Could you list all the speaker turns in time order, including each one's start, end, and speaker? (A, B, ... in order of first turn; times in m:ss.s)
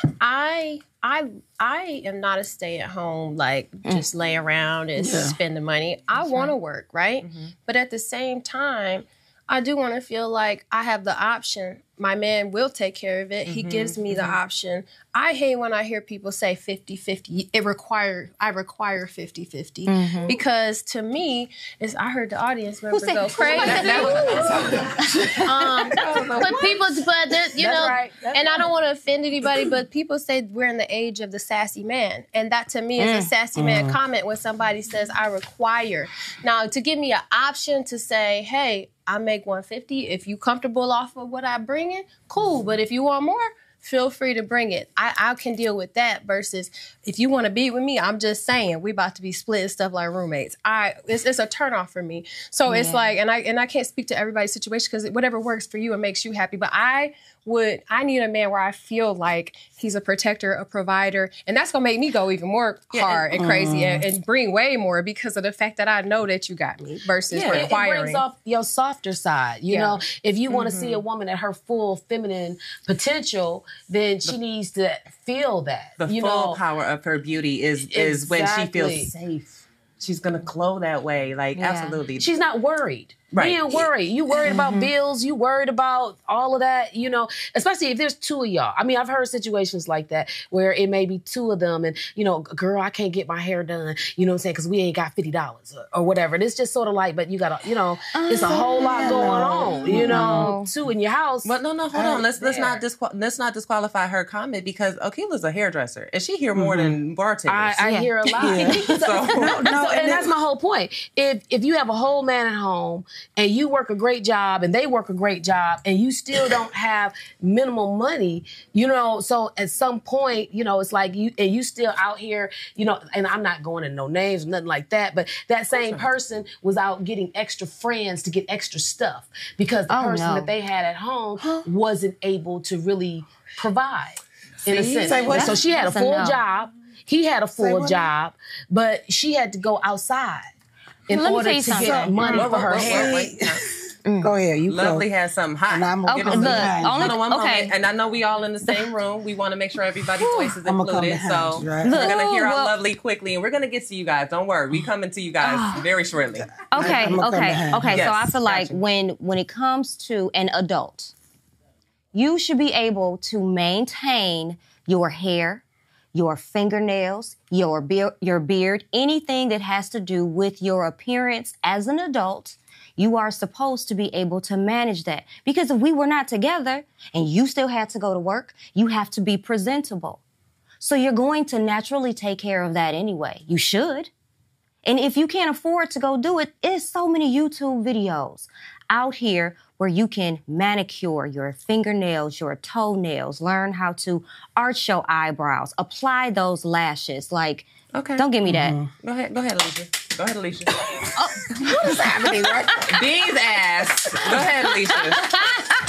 0:00.2-0:24.6 A
0:05.0-0:05.4 B
0:06.2-0:06.5 C
0:07.2-0:07.5 D
0:13.5-0:14.4 D
0:19.9-0:20.4 C
0:22.9-0:25.4 C
0:23.6-0:26.2 B
0:25.4-1:08.2 A
0:26.0-0:27.0 D
0:27.6-0:28.7 E
0:33.0-0:33.3 C
0:33.6-0:34.0 B
0:52.7-0:53.2 C
1:02.9-1:03.3 D
1:03.3-1:04.1 B
1:07.3-1:07.7 D
1:07.3-1:16.6 E
1:09.7-1:10.0 A
1:10.5-1:11.0 D
1:16.0-1:19.1 D
1:17.9-1:19.6 E
1:20.0-1:22.3 D
1:21.6-1:22.0 C
1:22.2-1:41.5 E
1:23.3-1:23.9 D
1:24.4-1:24.9 C
1:38.1-1:39.3 C
1:38.7-1:40.5 B
1:39.9-1:40.7 C
1:41.4-1:47.8 D
1:42.0-1:42.3 B
1:42.4-1:42.8 E
1:46.6-1:47.0 B
1:47.5-2:20.5 E
1:47.8-1:48.1 C
1:48.4-1:48.8 B
1:48.9-1:49.6 D
1:49.4-1:50.3 B
2:05.7-2:06.1 D
2:09.9-2:10.5 C
2:11.4-2:11.7 B
2:14.7-2:15.6 D
2:14.9-2:15.6 B
2:15.3-2:16.4 C
2:17.6-2:18.1 B
2:21.1-2:23.2 E
2:21.1-2:22.1 C
2:21.8-2:25.1 B
2:22.2-2:23.7 D
2:24.1-2:24.3 C
2:24.7-2:37.2 D
2:25.7-2:27.2 B
2:26.1-2:27.7 C
2:30.2-2:30.5 C
2:30.6-2:32.1 B
2:31.8-2:32.7 C
2:35.4-2:35.8 C
2:36.7-2:41.1 C
2:36.7-2:38.1 B
2:37.9-2:38.8 D
2:42.1-2:45.6 C
2:46.1-3:00.2 C
3:00.8-3:04.1 C
3:04.8-3:18.8 C
3:17.9-3:18.3 D
3:18.4-3:18.9 B
3:19.0-3:21.1 D
3:21.6-3:23.0 B
3:22.8-3:25.4 D